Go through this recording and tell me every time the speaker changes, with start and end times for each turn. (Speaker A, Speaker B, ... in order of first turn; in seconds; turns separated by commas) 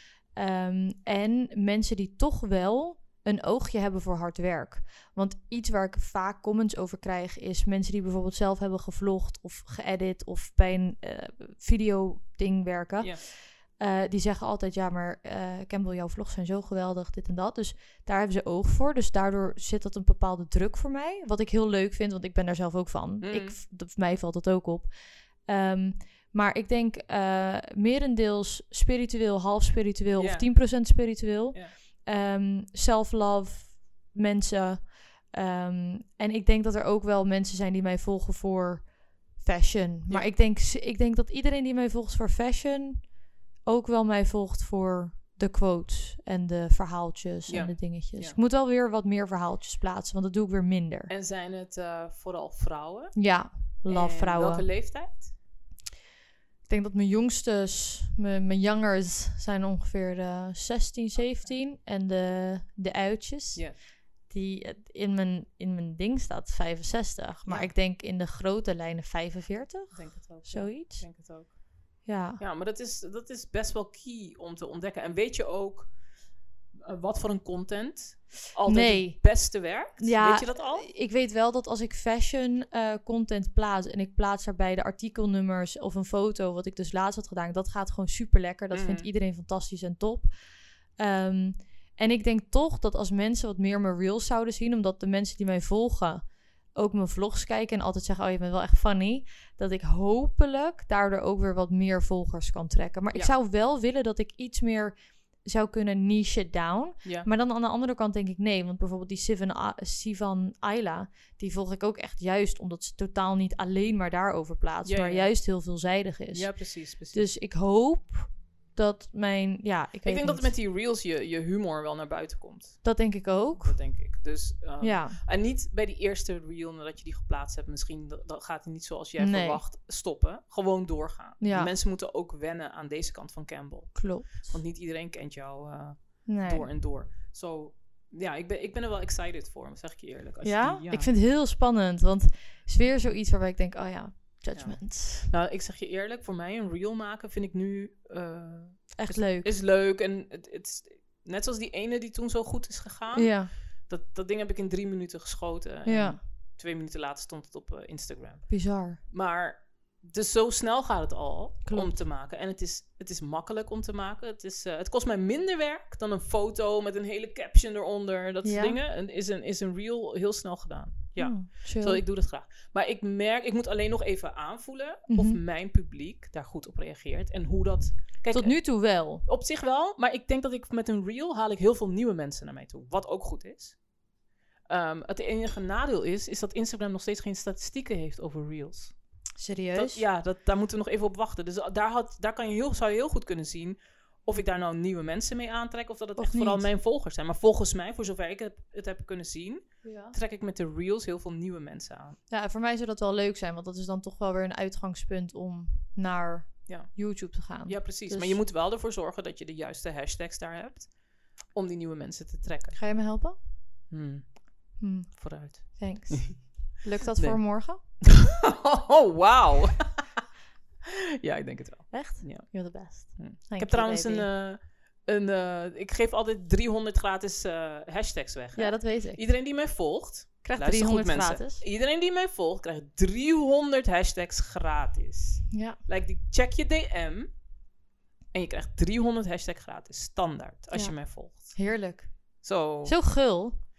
Speaker A: 0.3-24.9, Speaker B: 23.2-23.6, Speaker A: 25.4-43.1, Speaker B: 30.2-30.5, Speaker A: 43.6-51.1, Speaker B: 47.5-48.4, Speaker B: 51.1-53.1, Speaker A: 53.1-54.7, Speaker B: 53.9-55.3, Speaker A: 56.7-63.7, Speaker A: 64.3-71.1, Speaker B: 67.5-67.7, Speaker B: 69.9-71.6, Speaker A: 72.0-72.4, Speaker B: 72.4-75.9, Speaker B: 76.8-80.9, Speaker A: 78.7-90.3, Speaker B: 88.7-89.1, Speaker A: 91.0-120.5, Speaker B: 114.8-115.3, Speaker B: 116.3-117.2, Speaker B: 120.0-122.8, Speaker A: 122.8-123.8, Speaker B: 123.6-141.1, Speaker A: 124.8-125.2, Speaker A: 129.2-129.6, Speaker A: 131.4-131.7, Speaker A: 133.9-134.6, Speaker A: 136.2-136.7, Speaker A: 140.4-145.3, Speaker B: 144.5-158.5, Speaker A: 148.9-149.5, Speaker A: 153.1-153.5, Speaker A: 155.8-156.2, Speaker A: 158.5-159.0, Speaker B: 159.1-178.6, Speaker A: 161.7-162.0, Speaker A: 168.4-168.8, Speaker A: 171.2-172.0, Speaker A: 175.1-175.4, Speaker A: 178.3-179.2, Speaker B: 179.2-183.8, Speaker B: 184.7-188.9, Speaker A: 189.4-190.0, Speaker B: 189.7-202.2, Speaker A: 196.2-196.7, Speaker A: 199.8-200.2, Speaker A: 202.3-208.4, Speaker B: 206.7-210.9, Speaker B: 211.5-212.8, Speaker A: 212.7-213.4, Speaker B: 213.9-214.4, Speaker A: 214.8-217.8, Speaker B: 215.1-216.6, Speaker B: 217.1-220.1, Speaker B: 220.8-237.3, Speaker A: 221.9-224.3, Speaker A: 228.6-229.2, Speaker A: 230.4-231.6, Speaker A: 235.5-235.8, Speaker B: 238.3-241.6, Speaker A: 240.7-243.6, Speaker B: 242.4-243.0